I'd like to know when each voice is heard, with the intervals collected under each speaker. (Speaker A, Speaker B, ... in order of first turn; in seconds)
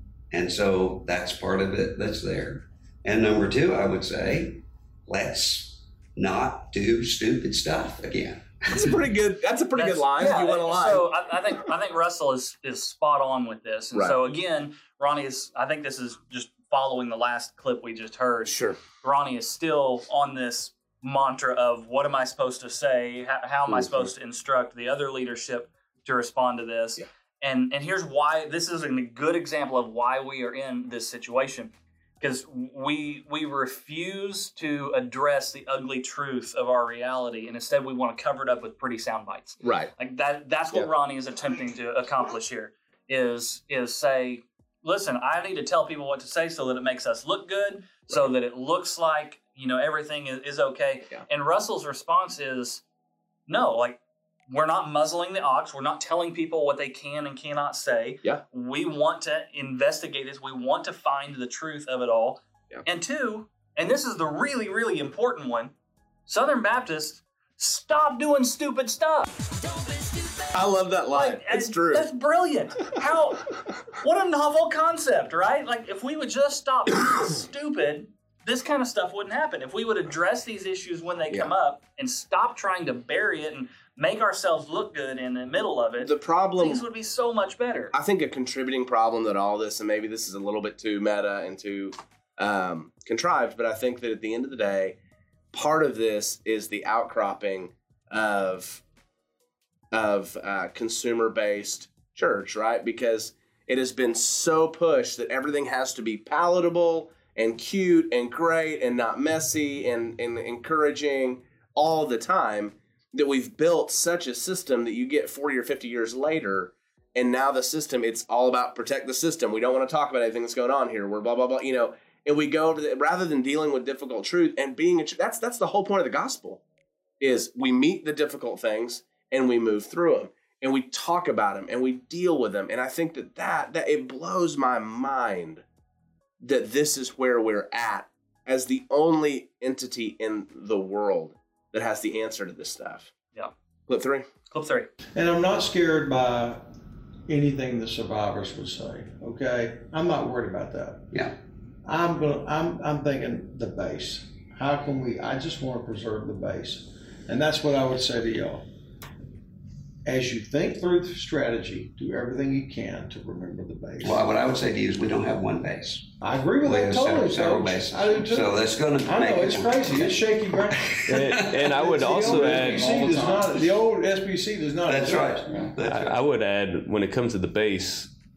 Speaker A: 0.3-9.0, 164.0-166.1, 166.6-170.2, 171.0-171.5, 172.2-172.9, 174.9-176.2
Speaker B: 8.7-11.1, 18.5-18.8, 23.7-24.1, 39.6-39.9, 70.5-72.1, 86.0-86.8, 87.9-95.0, 95.5-98.8, 99.9-126.6, 127.2-135.6, 136.4-143.1, 143.9-144.3
Speaker C: 9.8-52.8, 53.5-65.7, 66.3-69.3, 71.1-88.0, 144.5-144.9
Speaker D: 145.1-146.7, 147.3-151.3, 151.8-158.7, 160.1-164.3, 166.2-175.7
Speaker E: 171.1-173.7, 175.8-178.1